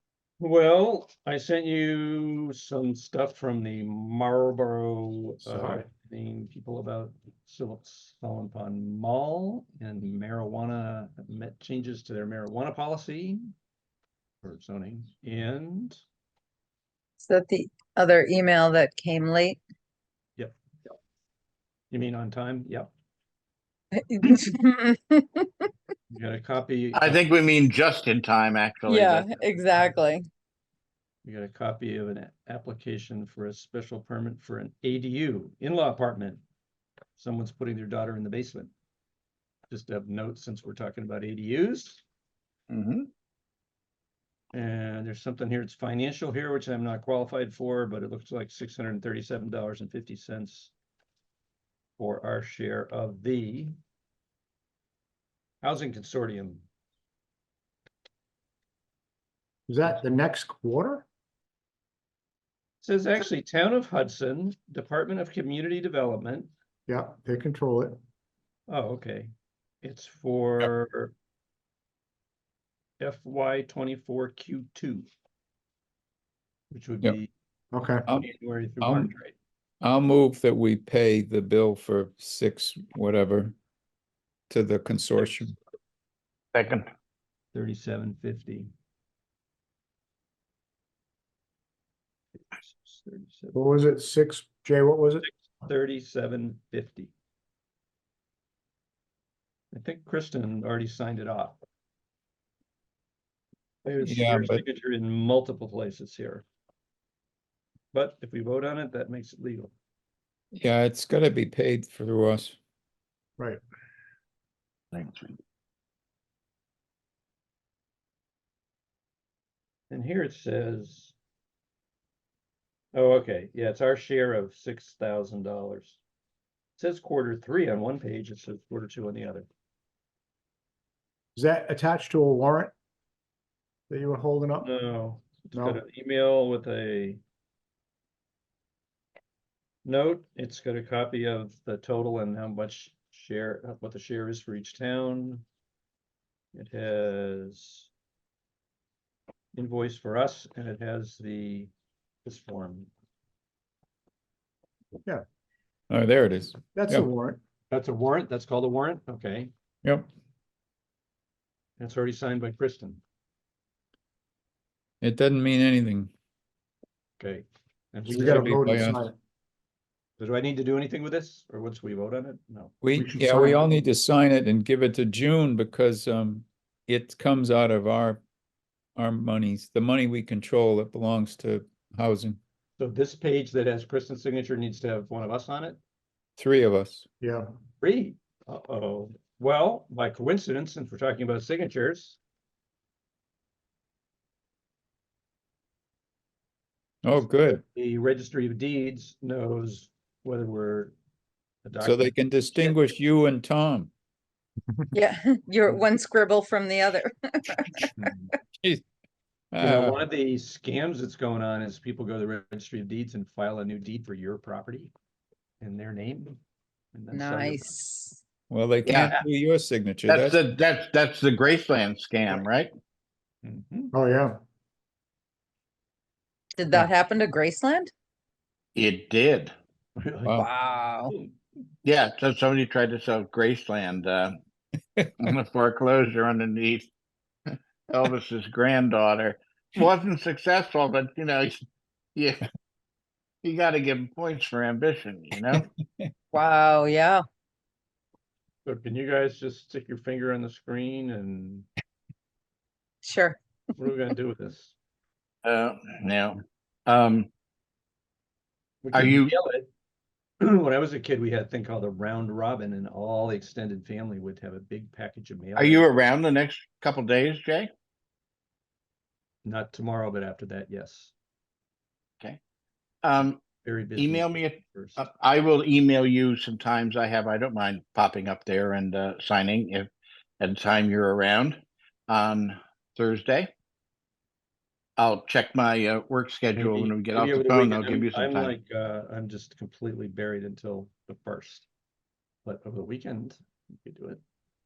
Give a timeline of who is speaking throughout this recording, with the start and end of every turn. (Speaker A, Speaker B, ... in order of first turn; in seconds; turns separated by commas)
Speaker A: 0.4-13.5, Speaker B: 5.4-5.8, Speaker A: 14.4-16.0, Speaker C: 17.2-19.6, Speaker A: 21.9-22.9, Speaker C: 23.9-25.7, Speaker A: 26.1-27.2, Speaker D: 26.9-29.7, Speaker C: 28.9-30.2, Speaker A: 31.2-36.4, Speaker A: 37.2-38.7, Speaker A: 39.7-42.0, Speaker D: 42.7-43.1, Speaker A: 44.5-50.7, Speaker A: 52.0-53.8, Speaker A: 55.6-56.6, Speaker B: 59.7-61.0, Speaker A: 62.8-66.5, Speaker B: 66.9-68.0, Speaker A: 68.7-69.3, Speaker A: 69.8-71.1, Speaker A: 73.0-75.1, Speaker A: 76.7-77.3, Speaker B: 77.7-78.0, Speaker A: 78.1-79.3, Speaker E: 78.8-79.1, Speaker E: 79.8-83.5, Speaker E: 84.5-85.5, Speaker D: 86.5-86.9, Speaker A: 87.5-88.7, Speaker A: 92.5-93.6, Speaker B: 93.5-95.3, Speaker A: 95.2-97.1, Speaker A: 99.7-101.6, Speaker A: 103.8-106.4, Speaker E: 104.0-104.6, Speaker A: 107.9-109.7, Speaker E: 110.5-112.6, Speaker D: 114.9-115.3, Speaker A: 119.9-121.1, Speaker A: 122.9-126.0, Speaker A: 126.8-129.5, Speaker B: 131.3-132.7, Speaker B: 133.9-134.7, Speaker A: 134.6-137.2, Speaker B: 135.5-135.8, Speaker A: 139.8-145.4, Speaker A: 146.5-147.9, Speaker A: 149.5-151.7, Speaker A: 152.2-152.9, Speaker E: 155.9-157.1, Speaker B: 156.7-157.4, Speaker A: 157.7-159.5, Speaker A: 161.8-163.0, Speaker E: 165.0-166.1, Speaker A: 167.2-168.9, Speaker B: 168.1-169.1, Speaker E: 168.2-169.0, Speaker A: 170.2-172.8, Speaker E: 172.8-178.2, Speaker B: 172.9-173.6, Speaker E: 178.9-182.4, Speaker A: 182.8-185.8, Speaker E: 186.4-187.1, Speaker B: 187.2-187.5, Speaker A: 187.8-192.2, Speaker E: 197.0-197.6, Speaker A: 197.1-200.9, Speaker A: 201.6-202.8, Speaker E: 201.8-203.9, Speaker C: 204.9-207.9, Speaker A: 208.0-208.3, Speaker E: 209.5-210.0, Speaker A: 209.6-214.9, Speaker A: 215.6-216.4, Speaker A: 216.9-217.8, Speaker C: 217.1-218.2, Speaker E: 218.5-220.4, Speaker D: 218.9-219.1, Speaker A: 218.9-219.2, Speaker D: 220.1-222.7, Speaker A: 223.4-223.9, Speaker B: 223.9-224.4, Speaker C: 226.6-227.9, Speaker D: 228.8-229.5, Speaker A: 230.0-230.4, Speaker C: 230.3-231.1, Speaker D: 231.8-234.3, Speaker D: 235.2-236.9, Speaker D: 237.9-241.6, Speaker D: 242.1-242.5, Speaker D: 243.4-245.7, Speaker E: 245.5-246.1, Speaker C: 246.3-247.2, Speaker A: 248.6-251.7, Speaker C: 253.0-253.4, Speaker A: 253.8-254.7, Speaker D: 255.4-257.3, Speaker A: 258.8-259.7, Speaker D: 258.9-259.3, Speaker A: 260.4-265.9, Speaker D: 265.6-267.7, Speaker A: 269.4-271.1, Speaker D: 273.0-273.4, Speaker A: 273.6-275.0, Speaker D: 274.0-279.9, Speaker D: 280.4-283.5, Speaker D: 285.0-288.5, Speaker A: 286.5-291.7, Speaker A: 292.4-294.2